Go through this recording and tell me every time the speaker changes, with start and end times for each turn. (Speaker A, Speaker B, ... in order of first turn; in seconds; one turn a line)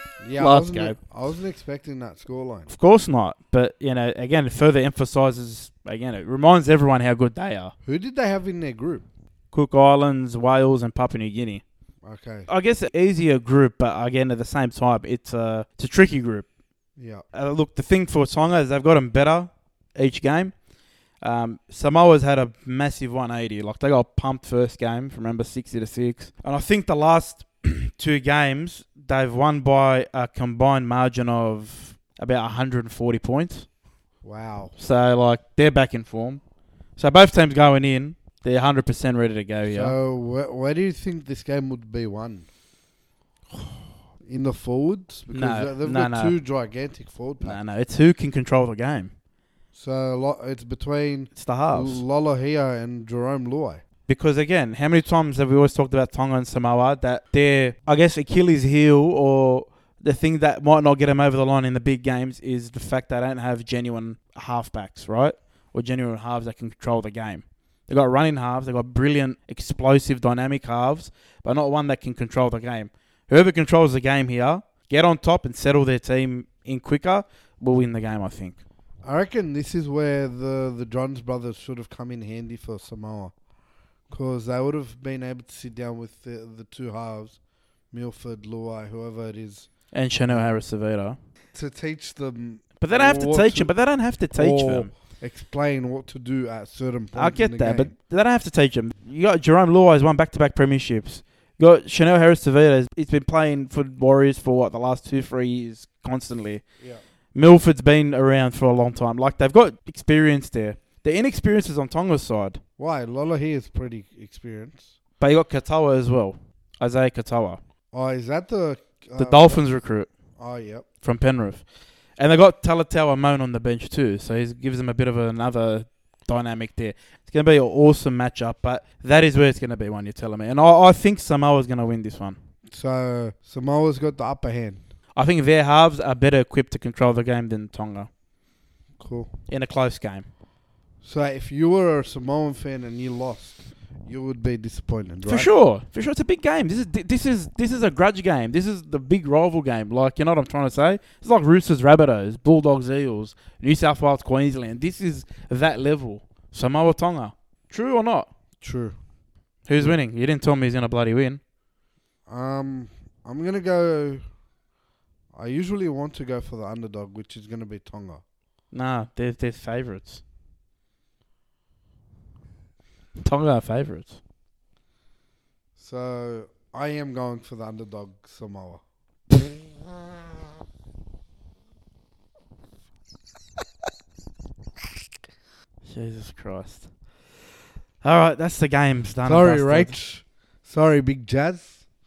Speaker A: 0.2-2.7
Speaker B: 0.4-1.0
Speaker B: 2.7-7.7
Speaker A: 7.8-9.1
Speaker B: 9.5-11.6
Speaker A: 12.0-12.5
Speaker B: 12.5-16.5
Speaker A: 17.0-17.2
Speaker B: 17.3-20.5
Speaker B: 21.2-33.7
Speaker A: 34.2-34.7
Speaker B: 34.8-36.4
Speaker B: 37.0-40.0
Speaker A: 39.7-42.5
Speaker A: 44.2-47.6
Speaker B: 45.3-46.3
Speaker B: 47.4-49.1
Speaker A: 49.7-53.8
Speaker B: 51.4-52.0
Speaker B: 54.1-78.6
Speaker A: 79.0-83.3
Speaker A: 84.1-87.4
Speaker A: 87.9-89.7
Speaker B: 89.9-91.2
Speaker A: 90.3-90.5
Speaker A: 91.5-93.7
Speaker B: 92.8-94.9
Speaker A: 94.3-97.9
Speaker B: 97.2-106.6
Speaker B: 107.3-112.6
Speaker A: 112.8-114.9
Speaker B: 115.2-117.6
Speaker A: 117.9-119.6
Speaker B: 119.2-120.1
Speaker A: 120.4-120.9
Speaker B: 121.0-121.6
Speaker B: 122.2-132.4
Speaker A: 132.7-134.8
Speaker B: 135.2-138.1
Speaker A: 139.0-139.3
Speaker B: 139.5-140.3
Speaker A: 141.0-145.5
Speaker B: 145.3-158.3
Speaker A: 158.6-159.0
Speaker B: 159.7-161.4
Speaker A: 162.3-164.2
Speaker A: 165.3-168.2
Speaker B: 168.7-170.2
Speaker B: 173.2-174.2
Speaker A: 175.8-178.8
Speaker B: 185.8-186.9
Speaker B: 188.0-189.9
Speaker A: 189.2-191.8